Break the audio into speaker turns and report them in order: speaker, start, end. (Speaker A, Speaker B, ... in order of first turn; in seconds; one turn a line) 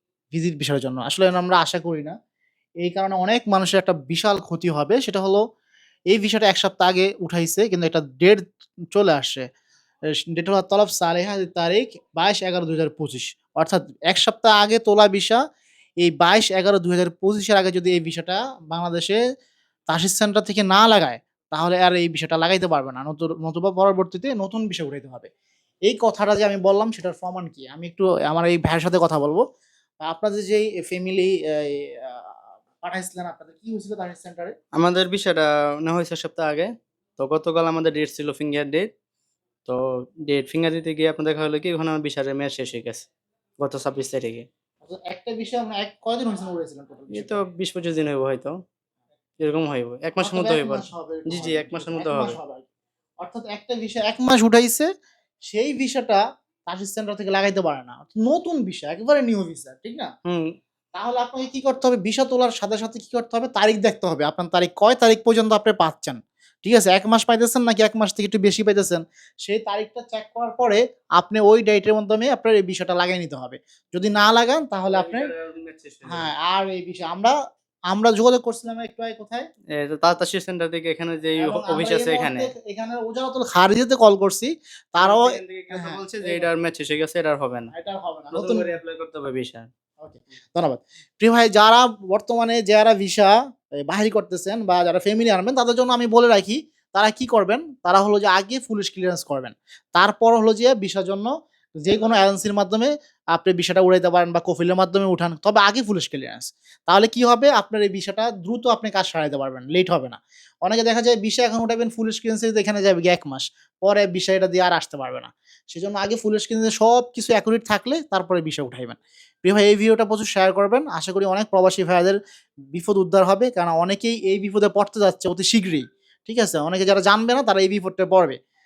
Speaker A: 0.3-2.1
Speaker A: 2.8-5.4
Speaker A: 6.1-8.4
Speaker A: 8.9-9.4
Speaker A: 10.3-15.4
Speaker A: 16.0-19.2
Speaker A: 19.9-25.3
Speaker A: 25.9-29.4
Speaker A: 30.0-34.5
Speaker B: 34.8-38.9
Speaker B: 39.7-43.1
Speaker B: 43.6-44.5
Speaker A: 44.8-47.4
Speaker B: 47.1-48.6
Speaker B: 49.4-52.4
Speaker A: 50.2-52.7
Speaker A: 53.2-54.9
Speaker A: 55.5-60.1
Speaker A: 61.0-75.3
Speaker B: 74.9-76.3
Speaker A: 76.1-77.3
Speaker A: 77.9-79.5
Speaker B: 79.8-82.5
Speaker A: 81.4-86.5
Speaker B: 85.0-87.7
Speaker A: 87.7-88.7
Speaker B: 88.3-89.7
Speaker A: 90.0-93.3
Speaker A: 93.8-122.2
Speaker A: 122.7-128.4